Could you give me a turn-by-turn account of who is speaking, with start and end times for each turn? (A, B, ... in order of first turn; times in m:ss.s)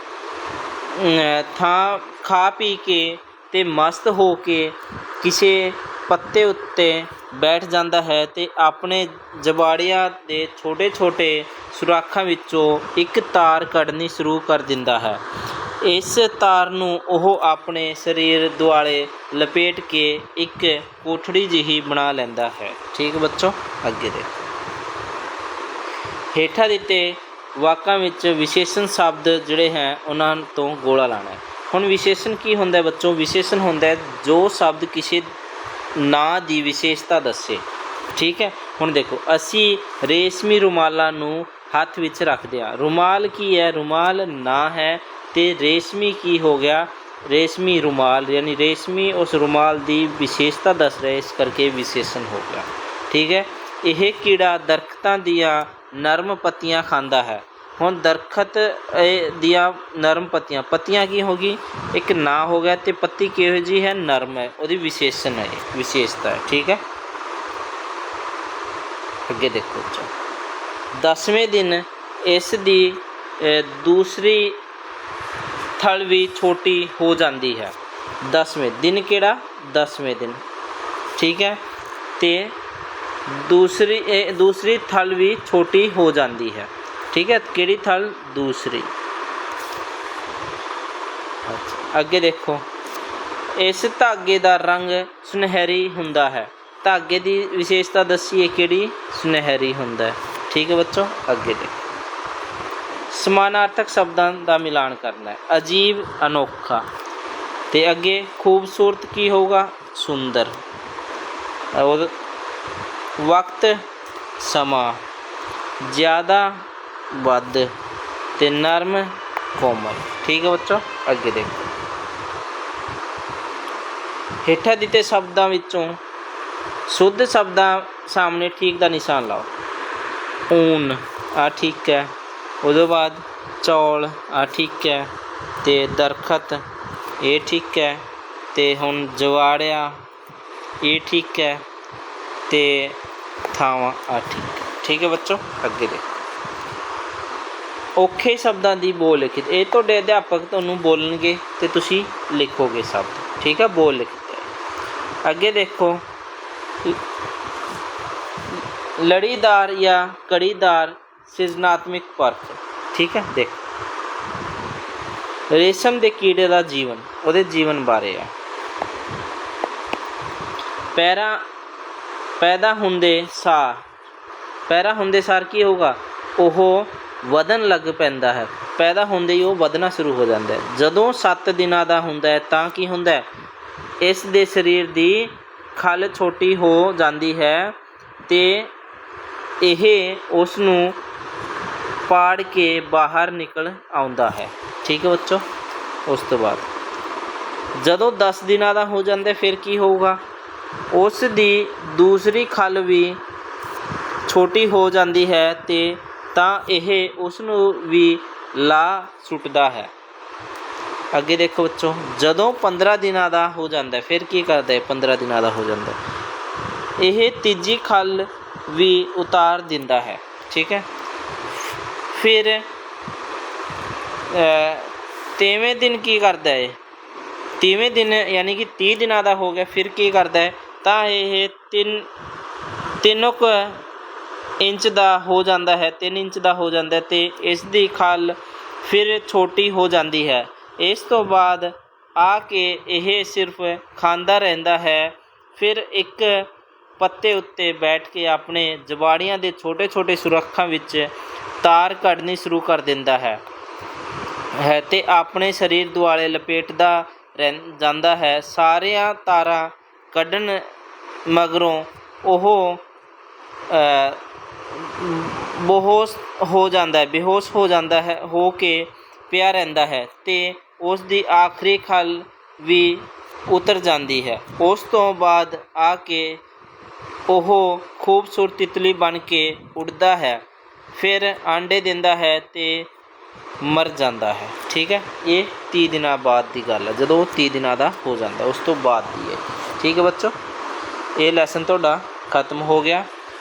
0:00.9-0:15.2 A
0:15.8-0:24.3 A
0:26.3-0:35.3 A
0:36.0-1:06.8 A
1:09.3-1:10.1 A
1:11.0-1:14.6 A
1:15.8-1:20.4 A
1:21.2-1:21.6 A
1:22.2-1:22.6 A
1:23.3-1:28.9 A
1:31.5-1:32.7 A
1:33.6-1:41.8 A
1:43.1-1:46.9 A
1:47.7-1:50.6 A
1:51.7-1:52.2 A
1:53.2-1:53.8 A
1:54.4-1:55.0 A
1:55.8-1:57.7 A
1:58.4-2:01.7 A
2:04.4-2:06.0 A
2:06.9-2:09.5 A
2:10.5-2:12.1 A
2:12.6-2:15.1 A
2:15.6-2:16.6 A
2:17.2-2:20.0 A
2:20.8-2:21.6 A
2:22.5-2:23.0 A
2:23.5-2:26.1 A
2:28.0-2:34.5 A
2:35.2-2:36.0 A
2:38.5-2:43.7 A
2:45.5-2:48.3 A
2:51.0-2:51.4 A
2:52.4-2:53.9 A
2:54.7-3:03.3 A
3:04.0-3:08.7 A
3:09.6-3:11.0 A
3:12.1-3:15.5 A
3:16.1-3:16.7 A
3:17.8-3:20.2 A
3:20.9-3:23.2 A
3:24.3-3:29.9 A
3:31.1-3:36.0 A
3:37.0-3:40.9 A
3:42.1-3:42.7 A
3:44.3-3:46.8 A
3:47.6-3:52.1 A
3:53.0-3:53.8 A
3:54.6-4:06.5 A
4:07.0-4:13.4 A
4:14.6-4:20.7 A
4:21.3-4:22.8 A
4:23.7-4:36.4 A
4:37.3-4:42.9 A
4:43.6-4:50.4 A
4:51.2-4:53.1 A